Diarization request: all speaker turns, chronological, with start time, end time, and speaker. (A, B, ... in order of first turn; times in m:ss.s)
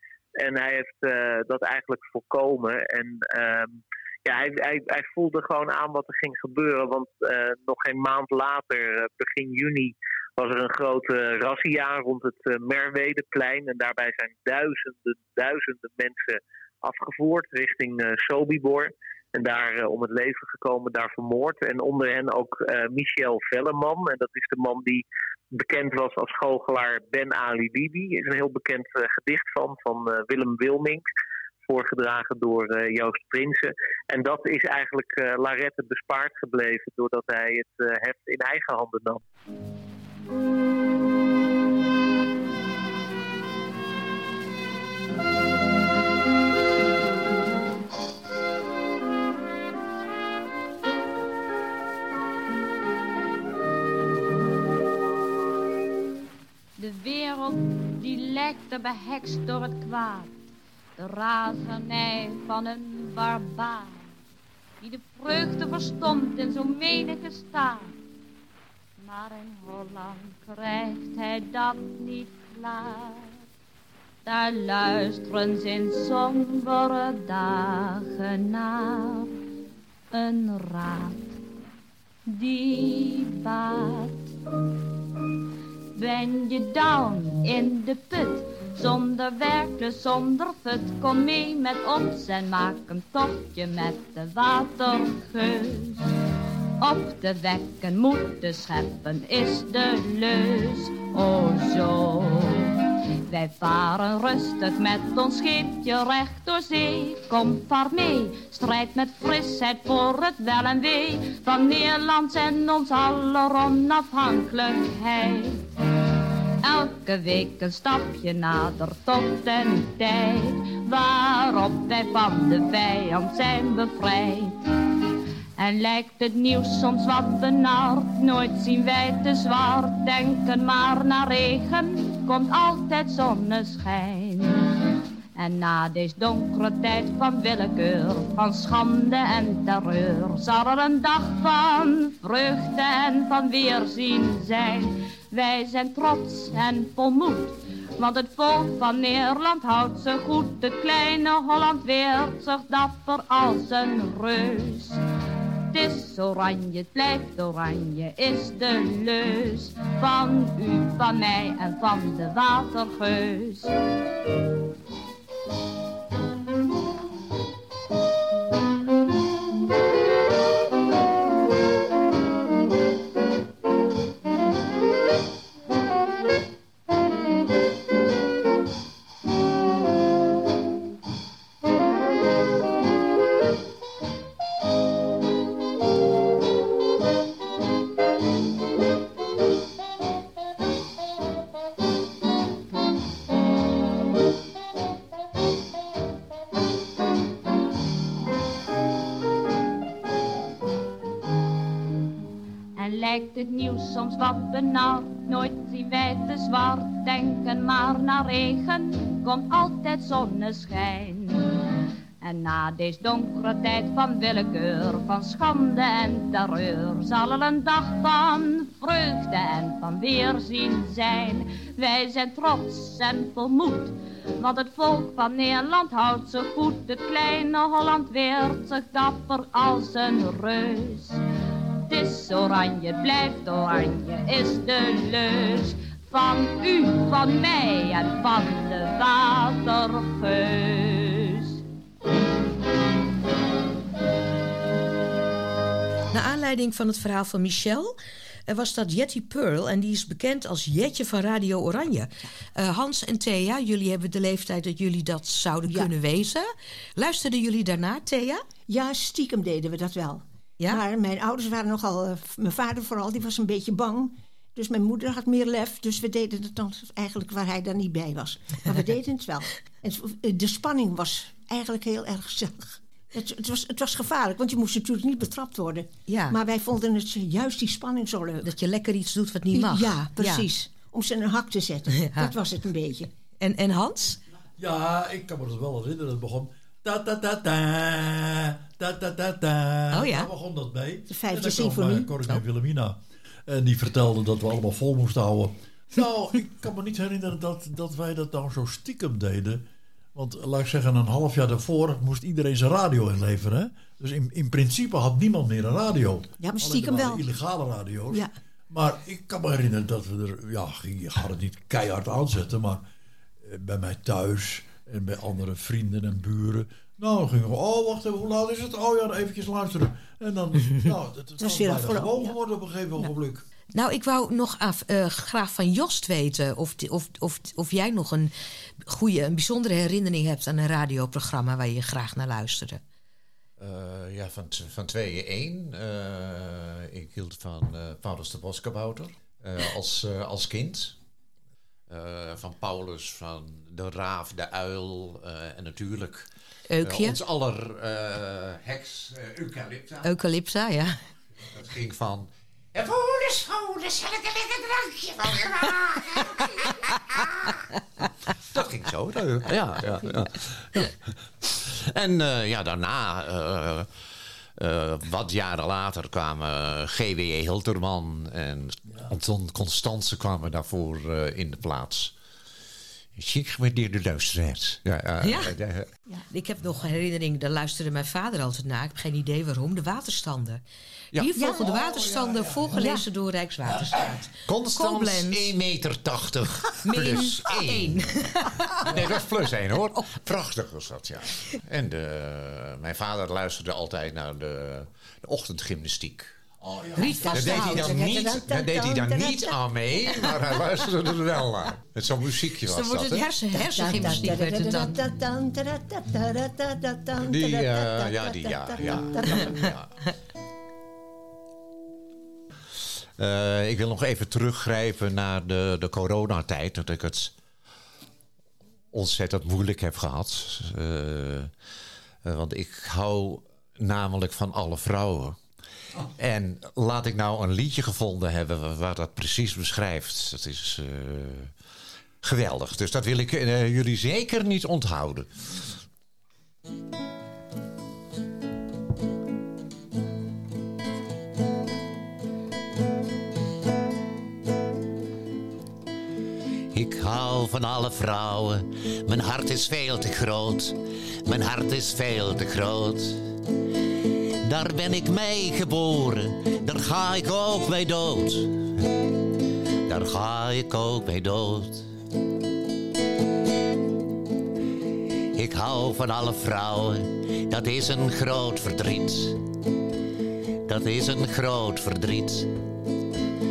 0:00.4-0:25.0 A
0:25.6-0:31.1 A
0:31.7-0:39.2 A
0:56.8-1:00.3 B
1:01.0-1:04.1 B
1:04.8-1:08.0 B
1:09.0-1:13.4 B
1:14.2-1:19.3 B
1:20.1-1:21.4 B
1:22.3-1:24.3 B
1:26.0-1:36.1 B
1:36.8-1:42.8 B
1:43.3-1:55.6 B
1:56.6-2:04.6 B
2:05.6-2:14.6 B
2:15.4-2:35.0 B
2:35.7-2:43.7 B
3:22.8-3:31.6 B
3:32.2-3:51.2 B
3:51.9-4:01.6 B
4:06.1-4:08.0 C
4:08.5-4:18.5 C
4:18.7-4:38.5 D
4:36.1-4:36.4 C
4:38.4-4:40.5 C
4:39.5-4:43.1 D
4:42.0-4:42.3 C
4:43.4-4:44.2 C
4:44.6-5:12.8 E
4:49.9-4:50.3 C
4:51.1-4:52.2 D
5:06.4-5:07.2 D
5:13.4-5:23.4 E
5:21.4-5:22.3 D
5:23.7-5:28.3 C
5:28.9-5:32.8 C
5:33.6-5:41.0 F
5:41.9-5:46.3 F
5:46.7-5:47.2 C
5:46.8-5:50.1 F
5:50.0-5:51.0 C
5:51.5-5:57.6 F
5:58.3-6:03.9 F
6:04.6-6:12.1 F
6:13.2-6:15.9 F
6:15.2-6:15.6 C
6:16.3-6:20.6 C
6:21.2-6:24.1 C
6:21.4-6:23.0 D
6:24.4-6:28.1 F
6:24.7-6:25.5 C
6:26.8-6:28.9 C
6:28.8-6:36.3 F
6:36.6-6:37.2 E
6:37.0-6:38.0 C
6:37.0-6:39.6 D
6:37.3-6:43.3 F
6:42.7-6:45.0 C
6:43.6-6:49.7 D
6:47.2-6:49.9 F
6:53.2-6:57.3 F
6:58.9-7:01.5 F
7:02.2-7:05.4 F
7:06.2-7:11.6 F
7:12.2-7:15.3 F
7:26.7-7:33.2 F
7:34.4-7:38.7 F
7:39.9-7:41.9 F
7:45.4-7:49.4 F
7:50.7-7:52.5 F